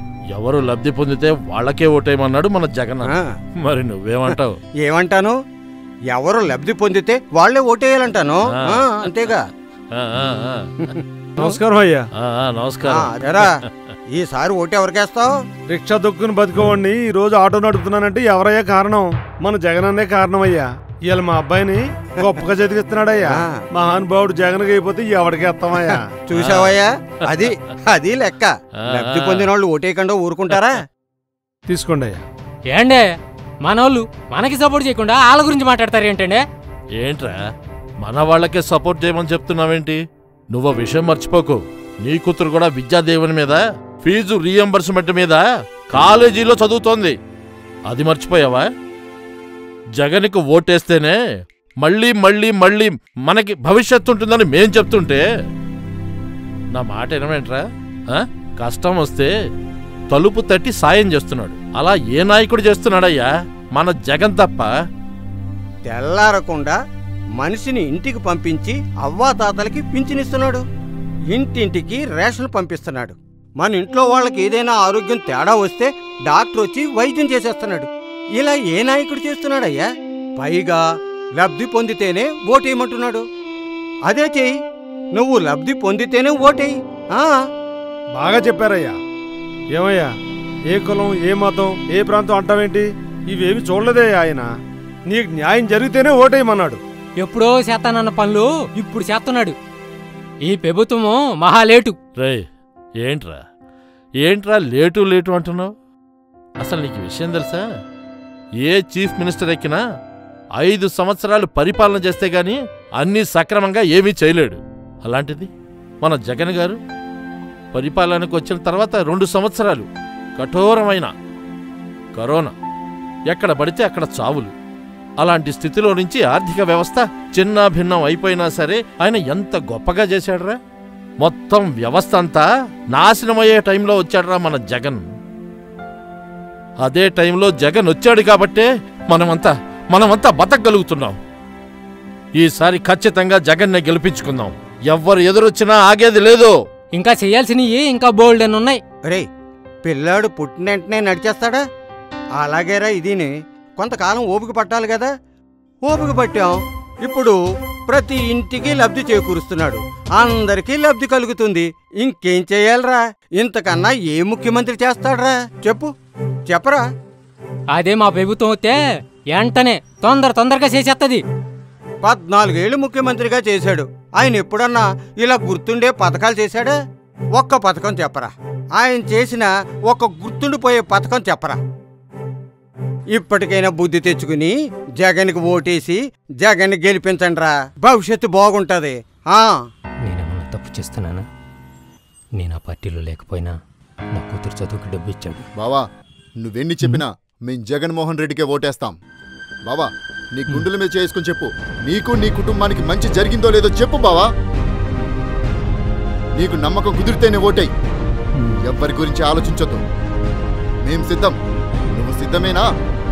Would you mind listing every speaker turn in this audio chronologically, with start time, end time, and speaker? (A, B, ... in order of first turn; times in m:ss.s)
0:00.3-0:04.6 A
0:03.0-0:03.3 B
0:04.8-0:05.4 B
0:06.1-0:09.4 B
0:09.0-0:09.3 A
0:09.9-0:10.7 A
0:10.9-0:11.6 B
0:11.4-0:12.0 C
0:12.2-0:13.1 A
0:12.8-0:13.5 B
0:14.2-0:15.3 B
0:15.7-0:26.0 C
0:23.3-0:23.6 B
0:25.8-0:30.8 B
0:26.4-0:26.8 A
0:29.0-0:29.5 A
0:31.7-0:32.2 C
0:32.7-0:33.0 D
0:33.6-0:36.4 D
0:37.0-0:37.4 A
0:38.0-0:40.0 A
0:40.5-0:47.2 A
0:47.9-0:48.7 A
0:50.0-0:51.2 A
0:51.8-0:55.2 A
0:56.7-0:59.3 A
1:00.1-1:04.7 A
1:05.9-1:06.8 B
1:07.4-1:10.6 B
1:11.3-1:19.9 B
1:20.4-1:20.8 B
1:21.4-1:23.2 B
1:24.1-1:24.5 B
1:25.2-1:27.4 B
1:28.2-1:29.0 C
1:29.8-1:30.1 C
1:30.7-1:34.5 C
1:35.1-1:36.8 C
1:37.2-1:39.6 D
1:40.4-1:42.0 D
1:42.2-1:42.4 A
1:43.0-1:43.4 A
1:44.2-1:45.7 A
1:46.6-1:47.6 A
1:48.6-1:49.8 A
1:50.6-1:55.5 A
1:56.0-1:56.8 A
1:57.7-1:59.9 A
2:00.4-2:01.1 A
2:02.2-2:02.5 A
2:03.3-2:04.5 A
2:05.2-2:10.6 A
2:11.2-2:15.0 A
2:16.8-2:21.2 A
2:22.4-2:26.5 A
2:27.0-2:28.8 D
2:29.8-2:31.6 B
2:32.4-2:35.1 B
2:35.8-2:36.6 B
2:37.1-2:37.4 B
2:37.9-2:45.9 B
2:46.5-2:46.8 B
2:47.7-2:48.8 D
2:49.3-2:51.2 D
2:52.0-2:56.8 B
2:57.4-3:01.6 B
3:03.2-3:09.5 B
3:10.0-3:11.3 D
3:12.4-3:13.6 D
3:14.2-3:15.4 D
3:15.6-3:15.8 E
3:16.4-3:19.0 E
3:19.7-3:24.3 E
3:26.4-3:27.7 E
3:28.6-3:29.8 E
3:30.8-3:31.4 E
3:32.0-3:32.7 E